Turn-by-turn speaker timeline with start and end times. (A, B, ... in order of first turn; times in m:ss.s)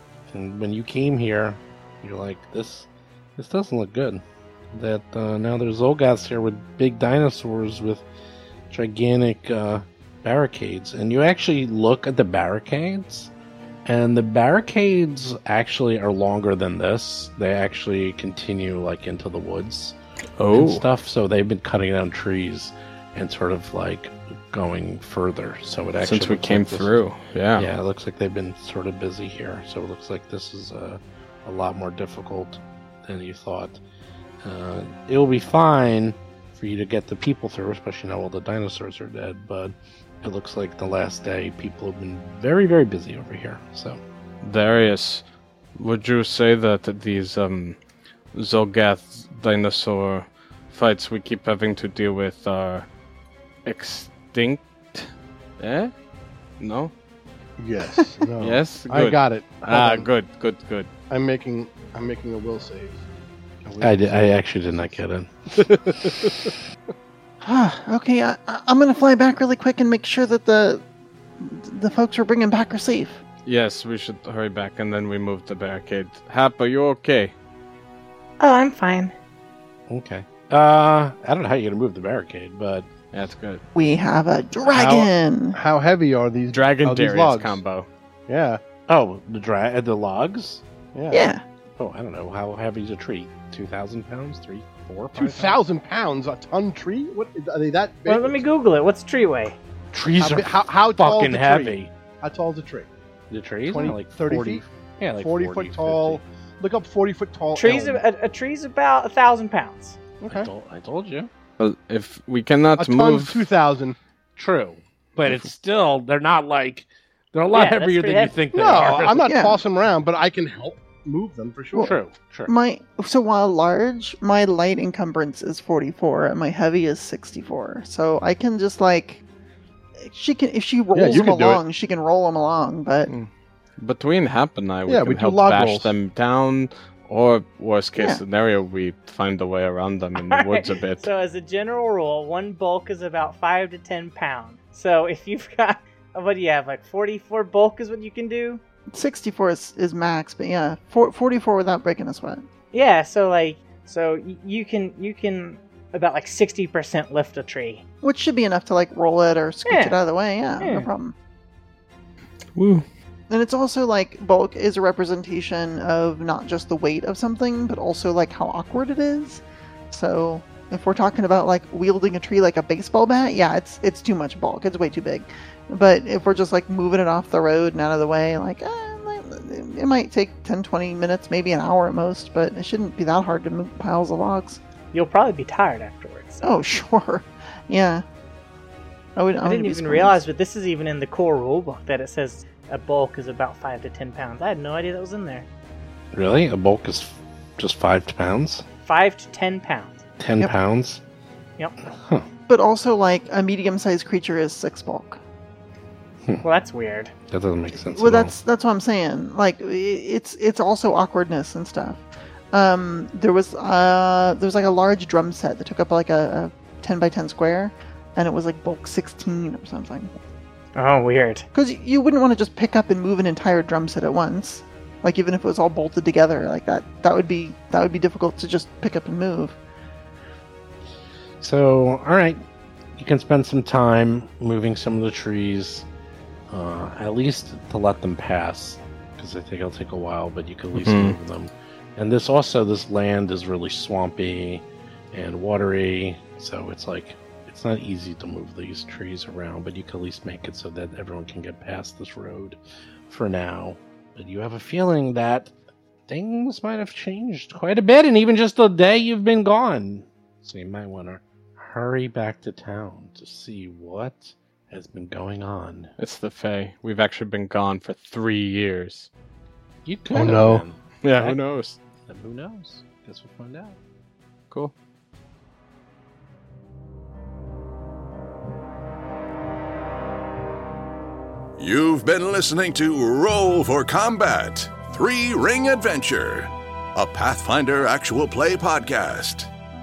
0:00.3-0:08.0 A
0:08.7-0:13.3 A
0:13.9-0:20.0 A
0:20.4-0:20.8 B
0:20.5-0:27.0 A
0:26.0-0:27.7 B
0:27.6-0:33.8 A
0:34.4-0:44.0 A
0:44.4-0:45.2 B
0:45.8-0:47.8 B
0:48.3-0:52.9 B
0:53.6-0:55.9 B
0:56.6-0:56.9 B
0:57.6-1:00.1 C
0:58.4-1:00.9 B
1:01.1-1:03.0 C
1:03.6-1:04.3 C
1:03.8-1:05.3 A
1:07.4-1:10.8 D
1:11.4-1:13.2 D
1:13.5-1:17.3 B
1:18.4-1:19.1 E
1:19.9-1:22.9 A
1:23.1-1:23.6 B
1:23.8-1:25.6 D
1:24.8-1:25.1 B
1:25.6-1:27.6 C
1:26.5-1:27.9 B
1:28.3-1:28.6 C
1:28.9-1:30.6 A
1:30.9-1:31.3 C
1:31.1-1:31.4 D
1:31.8-1:35.6 A
1:35.2-1:38.4 C
1:38.1-1:39.6 E
1:39.9-1:41.9 A
1:40.2-1:42.9 C
1:43.3-1:46.2 A
1:43.7-1:44.6 C
1:45.2-1:48.0 C
1:47.6-1:50.0 E
1:50.2-1:50.5 C
1:50.3-1:51.3 A
1:51.6-1:53.5 B
1:52.8-1:54.0 C
1:54.4-1:59.3 A
1:57.5-1:58.4 E
1:58.5-2:01.9 C
1:59.3-1:59.6 D
2:01.8-2:02.5 A
2:02.5-2:09.2 D
2:10.0-2:13.1 D
2:11.0-2:11.6 C
2:13.1-2:21.1 B
2:14.9-2:16.0 C
2:18.0-2:18.2 D
2:20.2-2:28.6 E
2:28.9-2:32.4 D
2:32.7-2:37.8 E
2:38.0-2:41.2 D
2:39.7-2:40.0 E
2:40.6-2:40.9 E
2:42.6-2:42.8 B
2:43.3-3:04.6 D
3:04.9-3:06.5 E
3:06.4-3:08.0 D
3:09.2-3:10.2 D
3:09.4-3:15.5 E
3:16.1-3:18.6 A
3:18.9-3:20.0 E
3:20.2-3:21.0 A
3:21.8-3:22.3 A
3:22.5-3:25.2 D
3:26.4-3:27.1 E
3:27.3-3:28.3 A
3:27.8-3:40.1 D
3:40.8-3:41.4 E
3:41.5-3:49.6 D
3:51.4-3:52.4 A
3:53.0-3:55.9 A
3:56.5-4:15.5 A
4:00.8-4:01.2 B
4:16.1-4:25.9 A
4:26.0-4:29.1 B
4:29.8-4:31.4 A
4:30.1-4:30.6 C
4:31.0-4:31.8 B
4:32.1-4:33.8 A
4:41.6-4:49.5 F